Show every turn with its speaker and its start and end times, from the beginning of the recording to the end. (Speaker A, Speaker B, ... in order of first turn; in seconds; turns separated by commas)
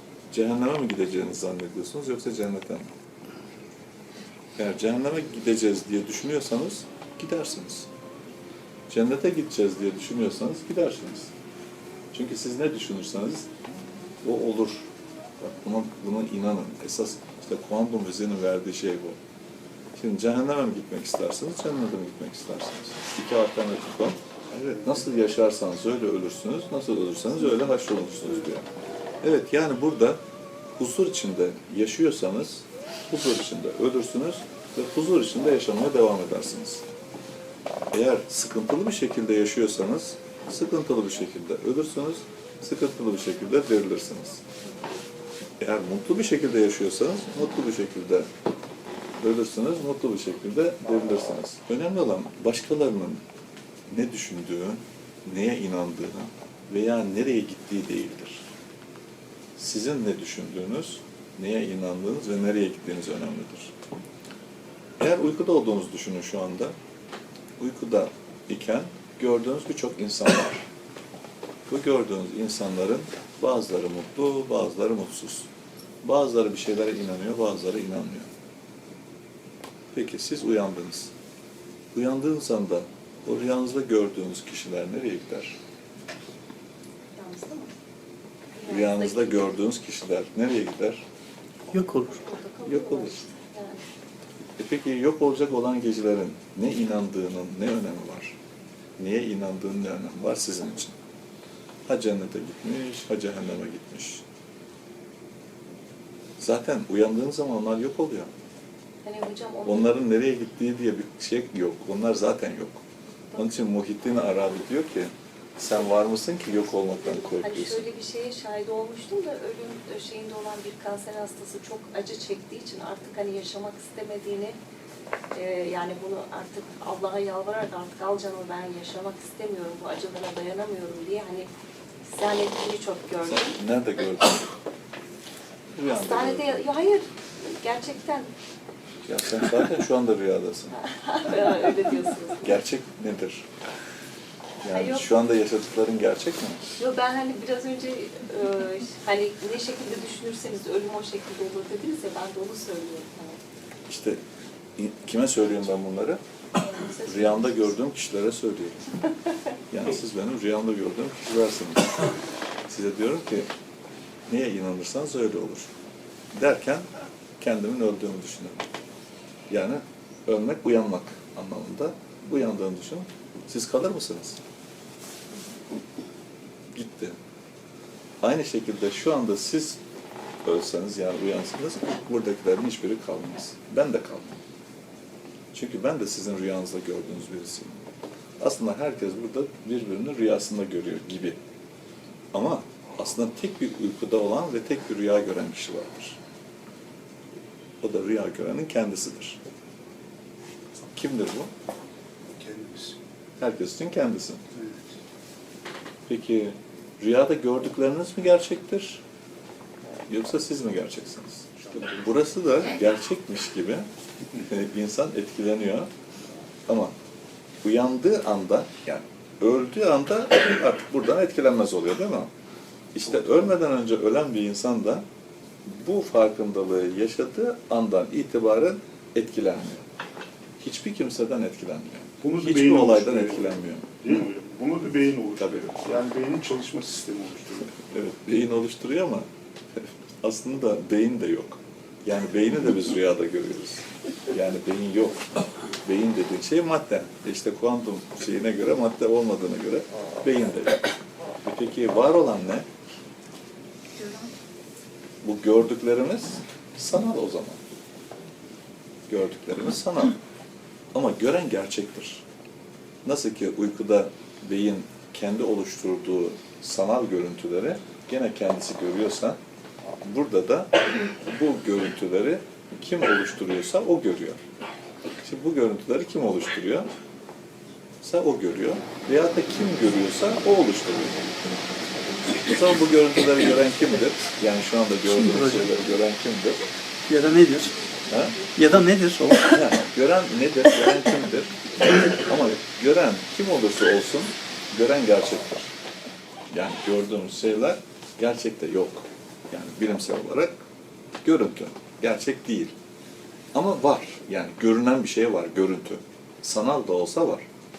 Speaker A: 0.3-2.9, Speaker A: 4.6-7.9, Speaker A: 8.9-11.3, Speaker A: 12.1-13.5, Speaker A: 14.2-19.2, Speaker A: 20.0-28.7, Speaker A: 29.2-30.2, Speaker A: 30.8-36.8, Speaker A: 37.9-44.4, Speaker A: 45.6-48.3, Speaker A: 49.2-53.2, Speaker A: 53.9-58.5, Speaker A: 59.6-63.7, Speaker A: 65.0-66.8, Speaker A: 67.6-70.6, Speaker A: 71.7-75.5, Speaker A: 76.0-78.3, Speaker A: 79.9-81.1, Speaker A: 81.9-85.6, Speaker B: 87.2-87.7, Speaker B: 88.5-89.5, Speaker A: 88.7-91.0, Speaker C: 91.7-92.1, Speaker B: 91.7-93.8, Speaker A: 92.6-93.2, Speaker A: 94.6-98.4, Speaker A: 99.0-101.0, Speaker A: 101.9-104.2, Speaker A: 106.4-108.3, Speaker B: 109.0-110.0, Speaker A: 109.7-112.8, Speaker A: 113.4-117.8, Speaker B: 117.2-124.6, Speaker B: 125.3-131.5, Speaker B: 132.1-133.6, Speaker A: 133.2-134.5, Speaker A: 135.8-136.7, Speaker B: 135.9-138.3, Speaker A: 139.0-140.8, Speaker B: 140.8-142.5, Speaker A: 142.4-143.5, Speaker A: 144.6-146.6, Speaker B: 144.7-145.1, Speaker B: 146.8-153.4, Speaker A: 153.9-154.2, Speaker A: 154.8-156.2, Speaker B: 156.6-157.7, Speaker A: 157.0-159.0, Speaker A: 159.7-162.0, Speaker A: 162.7-163.5, Speaker A: 164.3-165.7, Speaker A: 166.3-166.9, Speaker A: 167.4-168.6, Speaker A: 169.5-174.4, Speaker A: 176.7-177.2, Speaker A: 178.2-179.8, Speaker A: 180.4-184.4, Speaker A: 185.5-187.8, Speaker A: 188.4-191.4, Speaker A: 192.3-196.2, Speaker A: 197.8-199.4, Speaker A: 200.9-201.5, Speaker D: 202.3-203.0, Speaker A: 203.4-204.4, Speaker D: 204.5-204.9, Speaker A: 206.1-209.0, Speaker A: 210.1-213.9, Speaker A: 214.4-215.9, Speaker A: 216.7-216.9, Speaker A: 217.6-222.3, Speaker A: 222.9-225.1, Speaker A: 225.7-229.9, Speaker A: 230.6-234.0, Speaker D: 232.2-237.7, Speaker A: 235.4-235.8, Speaker A: 237.7-239.3, Speaker A: 239.8-250.9, Speaker A: 251.4-252.7, Speaker B: 254.0-254.3, Speaker A: 255.2-257.6, Speaker A: 259.1-260.2, Speaker A: 260.9-262.2, Speaker A: 263.1-269.4, Speaker A: 270.0-274.4, Speaker A: 275.2-276.9, Speaker A: 278.0-281.3, Speaker A: 282.3-286.6, Speaker C: 285.1-285.7, Speaker C: 287.1-287.7, Speaker A: 288.1-288.4, Speaker C: 288.6-289.6, Speaker A: 289.4-295.7, Speaker A: 296.5-300.5, Speaker A: 301.2-302.7, Speaker A: 303.5-307.4